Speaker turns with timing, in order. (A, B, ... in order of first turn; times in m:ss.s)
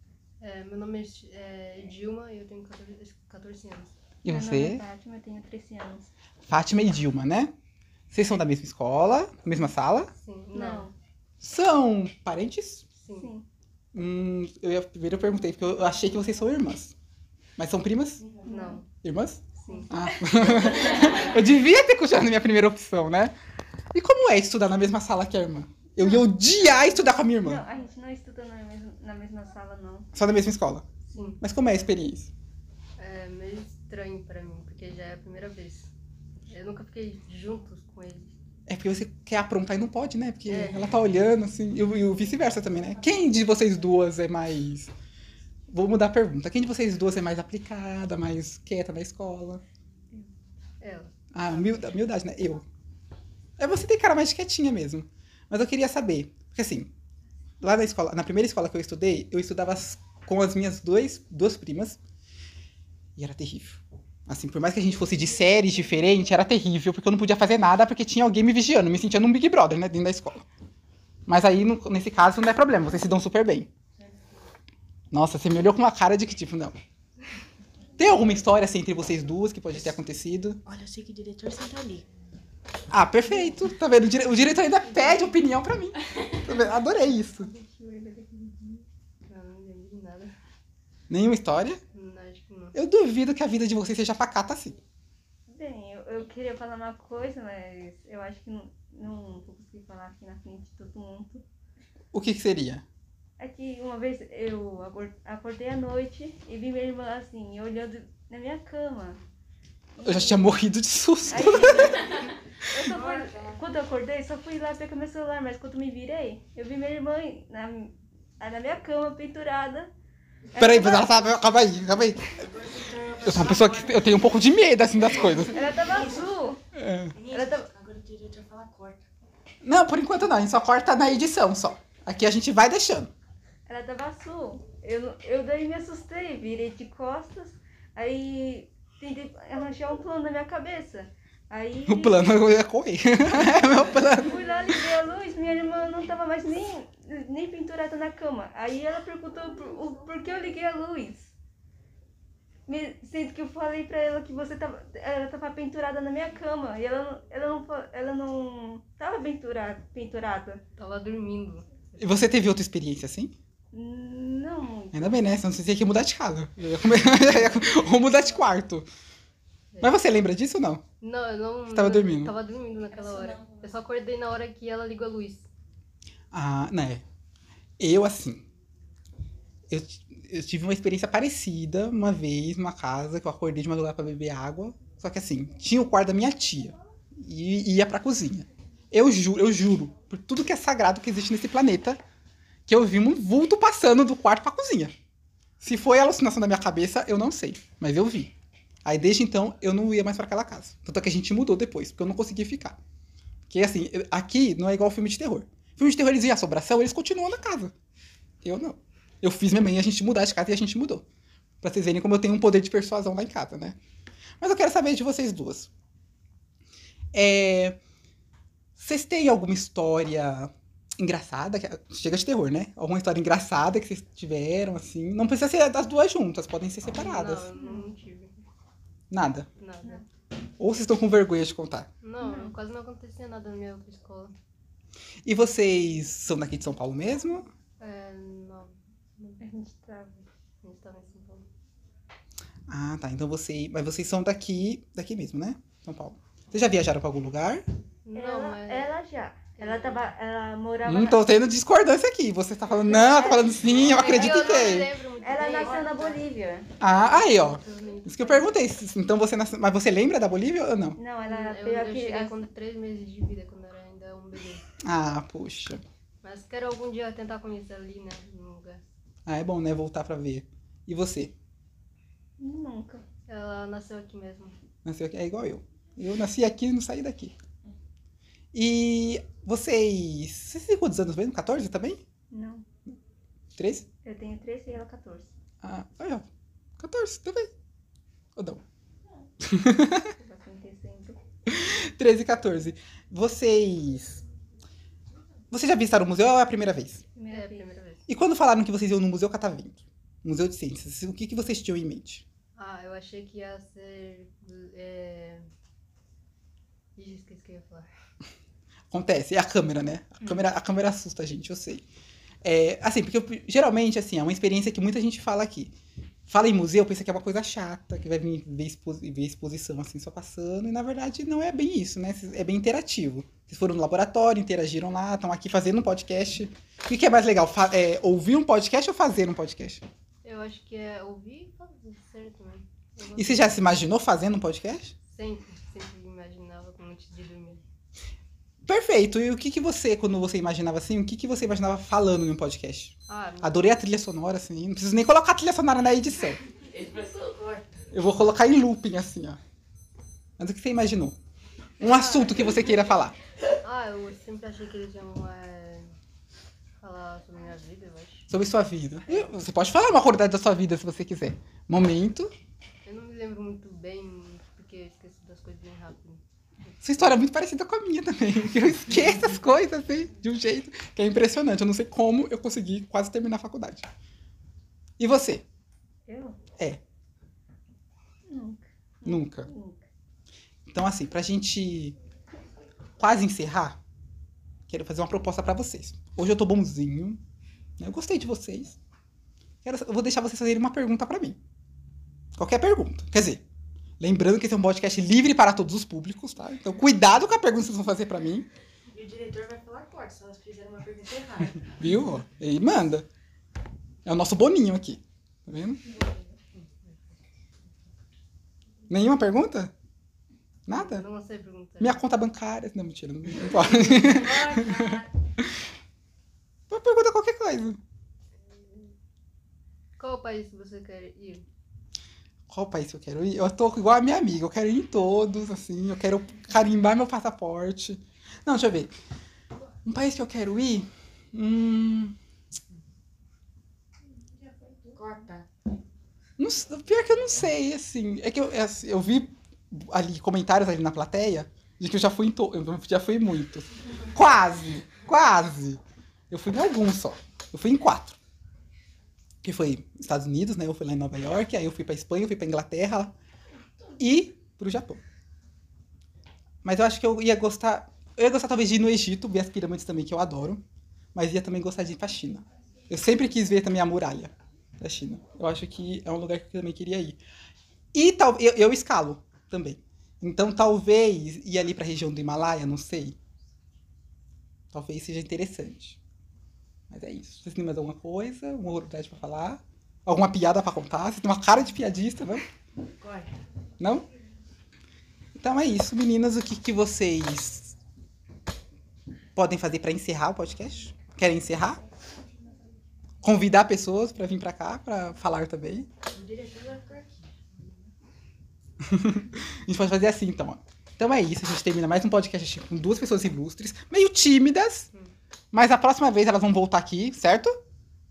0:00.4-0:03.9 A
0:04.2-0:04.8 B
0:04.2-0:06.1 C
0:06.5-0:07.5 B
0:08.1-0:10.1 B
0:10.2-0:10.9 A
0:10.5-0:10.9 C
0:11.4-0:12.8 B
0:13.0-0:13.3 A
0:13.1-0:13.4 C
0:13.9-0:16.9 B
0:17.6-0:18.2 B
0:18.4-0:18.9 A
0:18.4-0:18.8 C
0:19.0-0:23.3 B
0:19.6-0:21.1 C
0:19.6-0:19.9 A
0:23.9-0:27.6 B
0:27.3-0:30.1 C
0:30.1-0:30.9 B
0:31.1-0:31.4 A
0:31.4-0:32.3 B
0:33.0-0:35.9 A
0:36.5-0:38.4 A
0:38.7-0:44.9 B
0:40.5-0:40.9 A
0:45.7-0:49.6 B
0:50.8-0:51.2 A
0:51.3-0:52.7 B
0:53.6-0:56.9 B
0:57.6-1:02.0 B
1:03.2-1:10.4 B
1:11.3-1:13.7 B
1:15.1-1:16.8 B
1:18.0-1:20.6 B
1:20.6-1:22.0 D
1:22.9-1:27.5 B
1:27.3-1:28.8 C
1:29.3-1:30.3 A
1:31.1-1:31.8 B
1:31.9-1:32.8 A
1:32.7-1:34.8 B
1:35.5-1:41.4 C
1:42.1-1:42.8 B
1:43.4-1:49.2 C
1:50.0-1:50.5 C
1:50.0-1:52.1 B
1:51.3-1:59.9 C
1:53.1-1:53.6 D
2:00.5-2:01.2 C
2:00.6-2:02.4 B
2:02.4-2:04.2 D
2:03.2-2:05.7 B
2:05.4-2:06.6 C
2:05.8-2:06.2 D
2:06.7-2:07.2 B
2:07.1-2:09.0 D
2:07.3-2:07.7 C
2:09.6-2:13.1 B
2:13.7-2:22.3 C
2:21.9-2:24.4 B
2:23.4-2:31.3 C
2:32.7-2:40.6 C
2:40.8-2:42.0 A
2:42.0-2:43.3 B
2:43.7-2:45.2 C
2:44.9-2:48.9 B
2:49.7-2:50.0 A
2:49.8-2:50.8 B
2:51.0-2:55.5 A
2:51.7-2:52.3 B
2:56.3-2:57.0 B
2:57.8-2:58.4 B
2:59.7-3:12.0 B
3:12.7-3:14.9 B
3:15.6-3:18.3 B
3:18.8-3:22.8 B
3:23.5-3:27.7 B
3:28.4-3:31.0 B
3:31.6-3:33.8 B
3:34.4-3:35.7 B
3:37.1-3:37.8 B
3:38.8-3:47.5 B
3:46.9-3:48.4 A
3:47.6-3:47.9 C
3:49.1-3:49.5 B
3:49.6-3:50.0 A
3:50.6-3:51.9 B
3:52.0-3:54.3 A
3:52.2-3:52.5 C
3:55.2-3:57.5 B
3:57.8-3:59.4 A
3:59.4-4:00.2 C
4:00.6-4:01.4 A
4:02.7-4:07.6 B
4:08.0-4:08.9 A
4:08.1-4:11.3 C
4:09.6-4:10.1 A
4:10.8-4:14.9 B
4:12.8-4:16.7 C
4:13.1-4:16.1 A
4:16.8-4:18.5 A
4:16.8-4:21.0 B
4:21.0-4:22.4 C
4:21.2-4:24.6 A
4:24.8-4:25.8 B
4:26.2-4:28.9 A
4:29.2-4:31.3 B
4:32.4-4:33.0 C
4:33.3-4:34.6 A
4:34.8-4:37.3 B
4:38.5-4:42.0 B
4:42.3-4:42.6 C
4:43.6-4:43.8 B
4:44.0-4:45.3 C
4:45.6-4:46.2 B
4:46.8-4:47.5 B
4:48.4-4:48.6 B
4:49.4-4:50.1 B
4:50.0-4:51.2 C
4:51.4-4:54.2 B
4:55.5-4:57.0 B
4:57.1-4:57.7 C
4:57.3-4:58.0 A
4:58.1-5:02.2 B
5:02.6-5:05.4 A
5:07.0-5:07.9 A
5:08.9-5:11.8 B
5:12.4-5:15.7 B
5:16.3-5:29.8 B
5:30.2-5:33.6 A
5:33.2-5:34.9 B
5:35.1-5:37.6 A
5:38.6-5:46.4 B
5:43.1-5:43.7 A
5:46.8-5:47.8 D
5:47.9-5:49.4 B
5:50.4-5:51.2 B
5:51.8-5:53.2 B
5:51.8-5:52.5 A
5:53.6-5:55.9 A
5:56.8-5:58.3 A
5:58.3-6:02.3 B
6:02.8-6:06.2 A
6:06.8-6:13.9 B
6:15.0-6:15.4 B
6:16.1-6:16.4 C
6:18.3-6:19.8 C
6:19.0-6:19.5 B
6:20.7-6:22.0 B
6:23.0-6:23.8 B
6:24.7-6:27.2 B
6:27.8-6:28.8 B
6:29.6-6:31.4 B
6:32.4-6:33.4 B
6:34.0-6:38.5 B
6:38.9-6:41.7 D
6:41.6-6:43.1 B
6:44.0-6:45.8 B
6:46.5-6:47.2 A
6:48.9-6:49.7 B
6:50.7-6:51.0 B
6:50.7-6:52.0 A
6:51.8-6:55.5 B
6:53.7-6:55.1 D
6:56.7-6:57.8 B
6:58.4-6:58.9 A
7:00.0-7:01.4 A
7:02.5-7:08.9 B
7:09.8-7:12.1 B
7:14.9-7:15.4 D
7:16.4-7:28.2 B
7:29.4-7:33.1 B
7:34.0-7:35.0 B
7:36.6-7:40.6 B
7:41.1-7:47.2 B
7:47.9-7:53.2 B
7:54.7-7:56.0 B
7:56.9-8:02.4 B
8:03.0-8:03.3 D
8:03.8-8:04.1 B
8:05.4-8:07.8 B
8:09.3-8:11.8 B
8:13.2-8:15.9 B
8:16.0-8:17.2 D
8:18.8-8:24.9 B
8:25.5-8:27.5 B